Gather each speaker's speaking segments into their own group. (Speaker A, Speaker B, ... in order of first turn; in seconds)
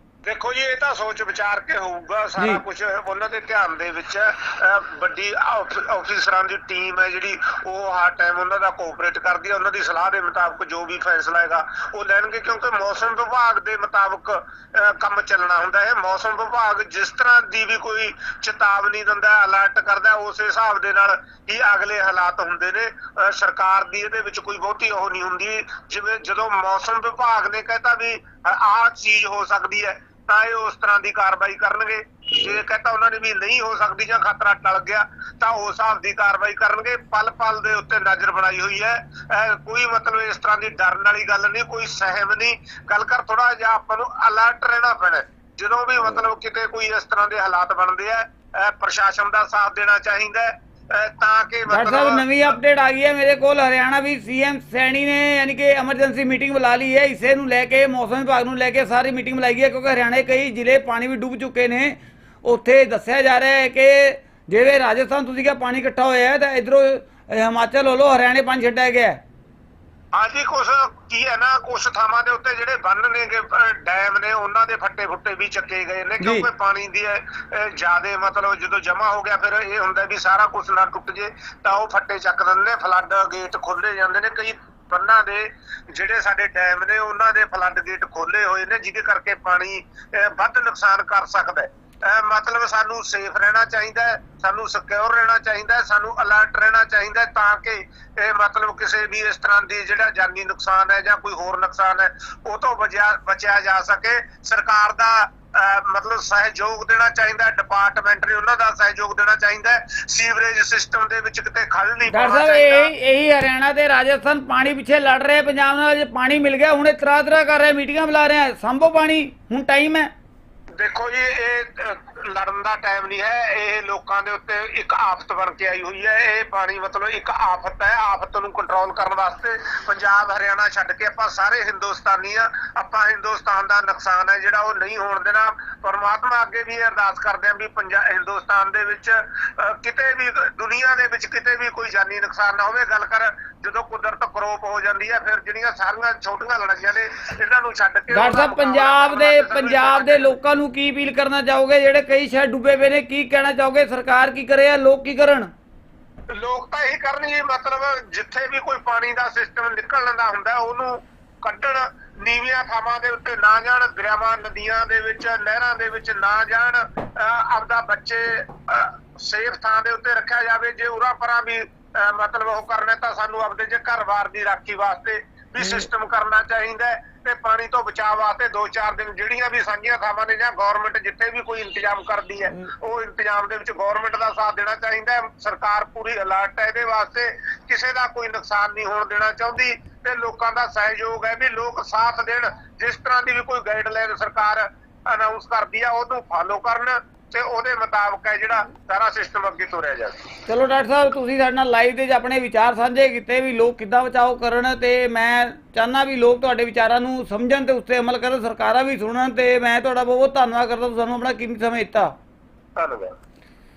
Speaker A: 0.2-52.5, 70.1-112.9, 120.8-150.3, 156.3-200.3, 212.8-213.1
Speaker B: 51.7-69.2, 76.2-76.5, 112.1-120.1, 148.1-155.5, 200.5-212.1